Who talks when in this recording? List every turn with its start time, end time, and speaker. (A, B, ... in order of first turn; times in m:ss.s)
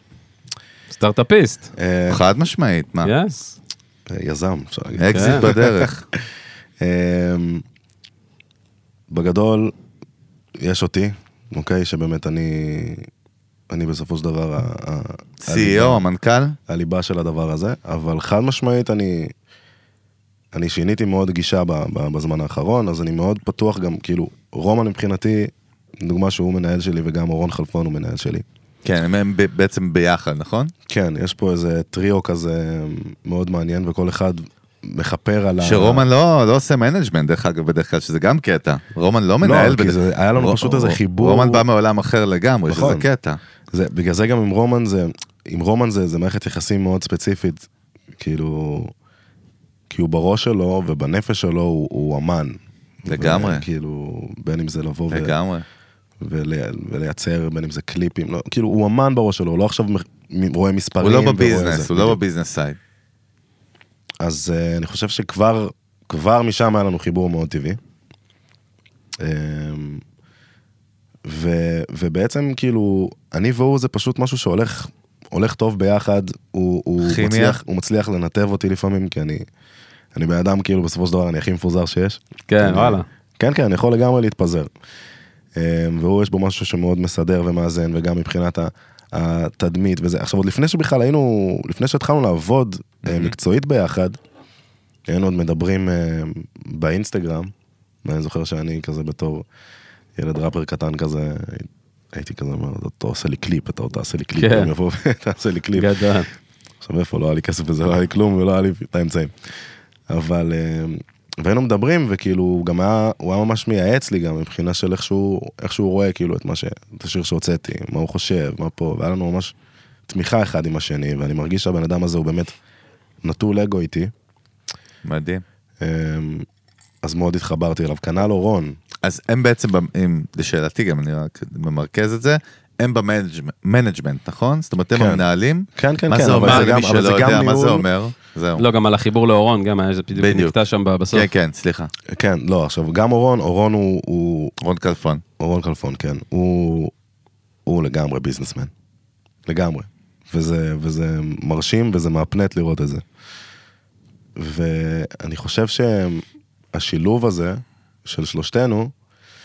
0:00.9-0:01.7 A
0:01.8-0:02.2 B
0:02.1-0:03.1 C
0:03.0-0:03.6 A
0:04.1-0:05.9 B
0:05.0-0:06.0 C
0:05.1-0:05.5 A
0:06.8-0:07.6 B
0:09.1-0:09.8 B
0:10.6-0:13.1 B
0:13.7-0:16.0 B
0:15.4-0:16.6 C
0:16.7-0:19.3 B
0:20.5-0:28.4 B
0:28.8-0:30.7 C
0:30.9-0:36.1 B
0:35.6-0:43.4 C
0:39.4-0:41.6 B
0:42.7-0:43.1 B
0:43.7-0:47.7 B
0:48.2-0:48.9 B
0:49.9-0:55.3 B
0:53.1-0:53.7 C
0:55.1-0:55.6 C
0:56.2-1:02.2 B
1:01.0-1:02.8 C
1:04.2-1:07.8 B
1:09.2-1:10.0 B
1:11.2-1:19.4 B
1:17.0-1:17.6 C
1:20.1-1:24.7 B
1:22.5-1:23.1 A
1:25.6-1:34.2 B
1:33.0-1:33.3 C
1:35.1-1:37.5 B
1:38.0-1:39.4 B
1:40.2-1:45.9 B
1:44.4-1:44.7 A
1:45.8-1:46.3 A
1:46.8-1:49.3 B
1:50.1-1:59.5 B
2:00.1-2:02.5 B
2:03.2-2:04.1 B
2:05.0-2:05.4 C
2:05.8-2:06.5 B
2:07.0-2:08.8 B
2:09.0-2:18.6 C
2:14.9-2:15.2 B
2:15.8-2:17.8 B
2:16.4-2:16.7 A
2:18.6-2:21.3 A
2:20.2-2:20.6 C
2:21.1-2:21.9 C
2:22.1-2:24.5 B
2:24.6-2:25.2 C
2:25.4-2:26.9 B
2:27.7-2:28.7 B
2:29.5-2:33.0 B
2:34.4-2:38.9 B